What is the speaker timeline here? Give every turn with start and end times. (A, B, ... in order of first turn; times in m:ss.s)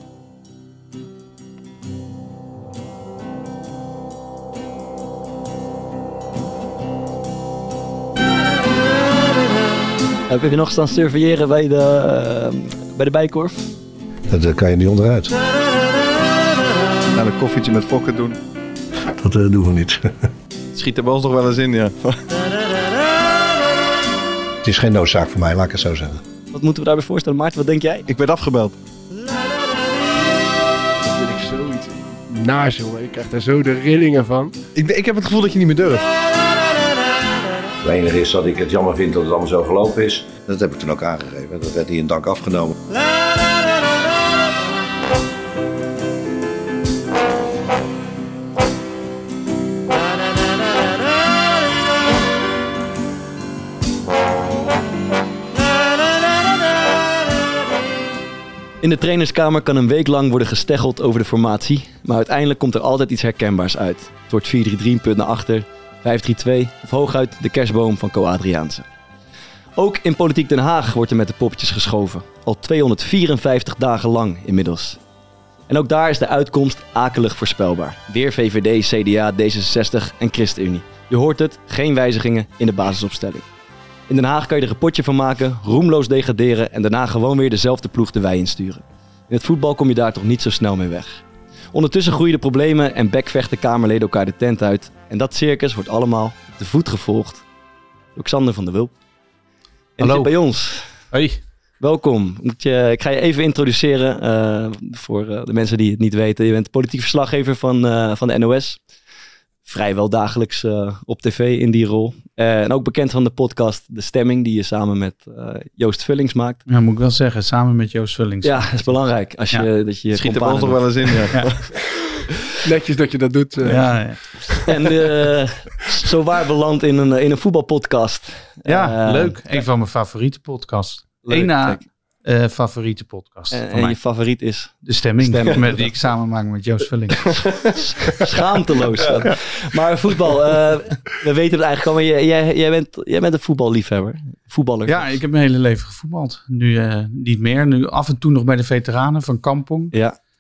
0:10.3-0:13.7 A
0:14.3-0:15.3 B
0:17.1-0:18.4 C
0:19.2-0:20.3 B
0:20.7-0:22.2 C
0:24.6-0:26.2 B
0:26.5-0:28.1 A
0:28.1-0:28.8 C
0:31.0-0:34.6 D
0:34.8-0:36.0 C
0:37.8-0:42.7 B
0:58.8-1:08.8 A
1:09.8-1:15.0 A
1:15.7-1:23.5 A
1:24.1-1:37.4 A
1:38.2-1:38.9 A
1:40.0-1:40.9 A
1:40.0-1:40.3 E
1:41.1-1:41.4 E
1:41.8-1:48.8 A
1:49.6-1:56.6 A
1:56.7-1:59.7 E
1:58.4-2:01.2 A
2:00.1-2:01.8 C
2:02.6-2:04.3 D
2:03.6-2:04.5 E
2:04.6-2:09.6 A
2:08.6-2:17.7 E
2:11.2-2:11.9 A
2:13.5-2:16.1 A
2:18.1-2:25.2 A
2:24.9-2:29.9 E